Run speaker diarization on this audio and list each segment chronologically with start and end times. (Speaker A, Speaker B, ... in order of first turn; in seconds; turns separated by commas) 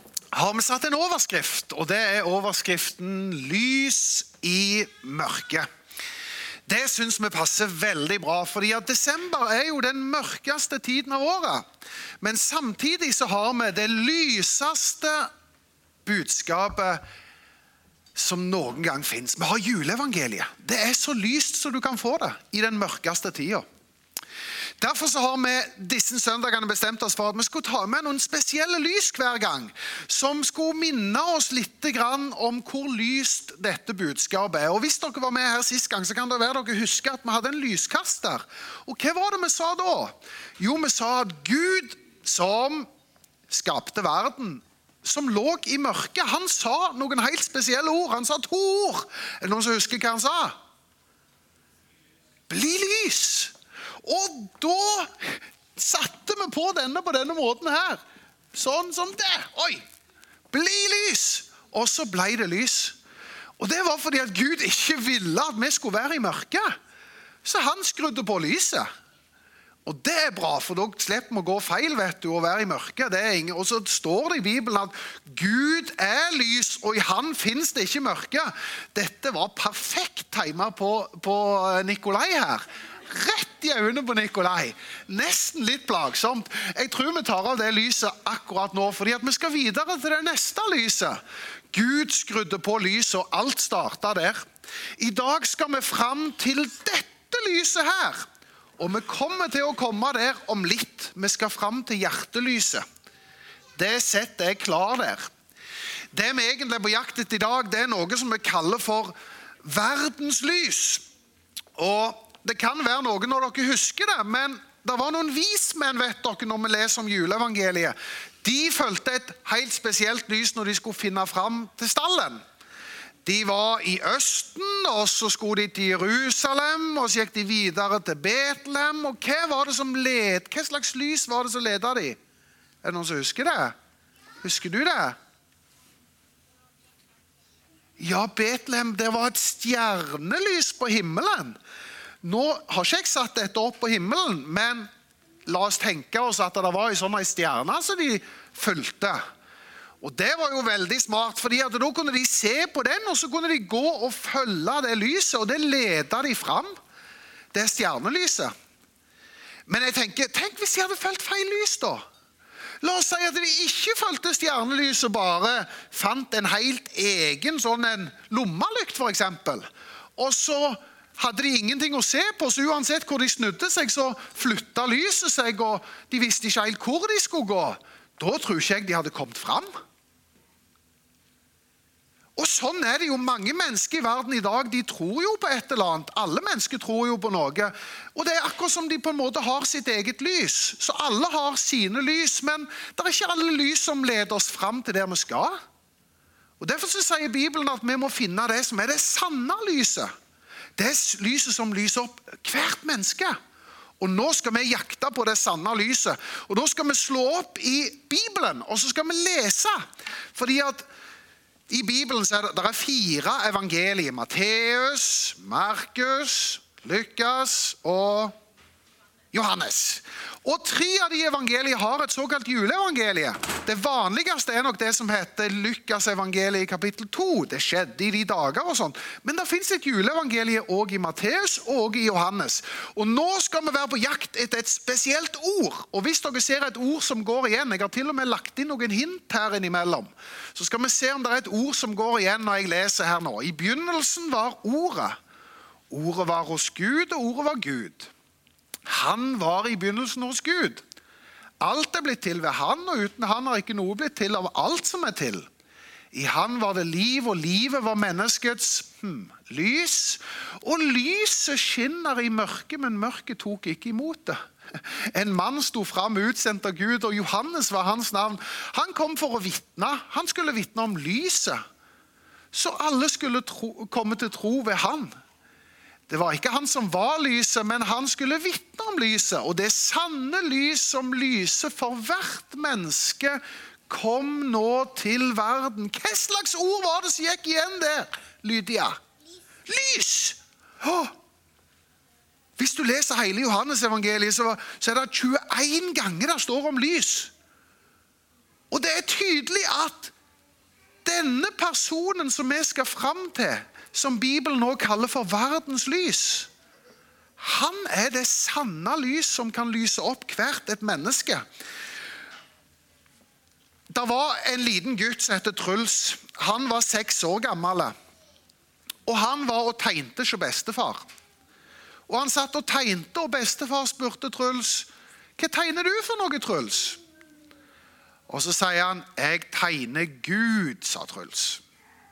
Speaker A: 0.3-5.7, Speaker A: 6.7-11.7, Speaker A: 12.2-15.3, Speaker A: 16.1-17.0, Speaker A: 18.2-23.6, Speaker A: 24.8-42.9, Speaker A: 43.5-50.6, Speaker A: 52.5-58.0, Speaker A: 58.5-59.8, Speaker A: 60.5-63.0, Speaker A: 63.6-66.7, Speaker A: 67.4-68.9, Speaker A: 69.9-91.2, Speaker A: 91.7-94.5, Speaker A: 95.0-98.3, Speaker A: 98.8-102.8, Speaker A: 103.8-105.3, Speaker A: 106.1-111.0, Speaker A: 111.8-122.4, Speaker A: 123.2-132.2, Speaker A: 132.8-133.8, Speaker A: 134.4-135.2, Speaker A: 138.0-141.6, Speaker A: 142.2-144.9, Speaker A: 145.5-149.2, Speaker A: 150.0-156.7, Speaker A: 157.5-158.5, Speaker A: 159.7-162.0, Speaker A: 162.8-169.7, Speaker A: 170.2-179.7, Speaker A: 182.4-195.6, Speaker A: 196.6-200.1, Speaker A: 200.8-203.4, Speaker A: 204.0-209.8, Speaker A: 210.3-210.9, Speaker A: 211.7-218.3, Speaker A: 219.3-245.2, Speaker A: 245.9-248.1, Speaker A: 248.9-250.8, Speaker A: 251.6-255.5, Speaker A: 256.1-271.6, Speaker A: 272.5-275.1, Speaker A: 276.1-289.0, Speaker A: 289.7-291.1, Speaker A: 292.6-297.3, Speaker A: 298.7-300.1, Speaker A: 301.1-306.5, Speaker A: 307.4-311.4, Speaker A: 313.9-317.9, Speaker A: 319.1-321.1, Speaker A: 322.1-327.0, Speaker A: 328.3-331.6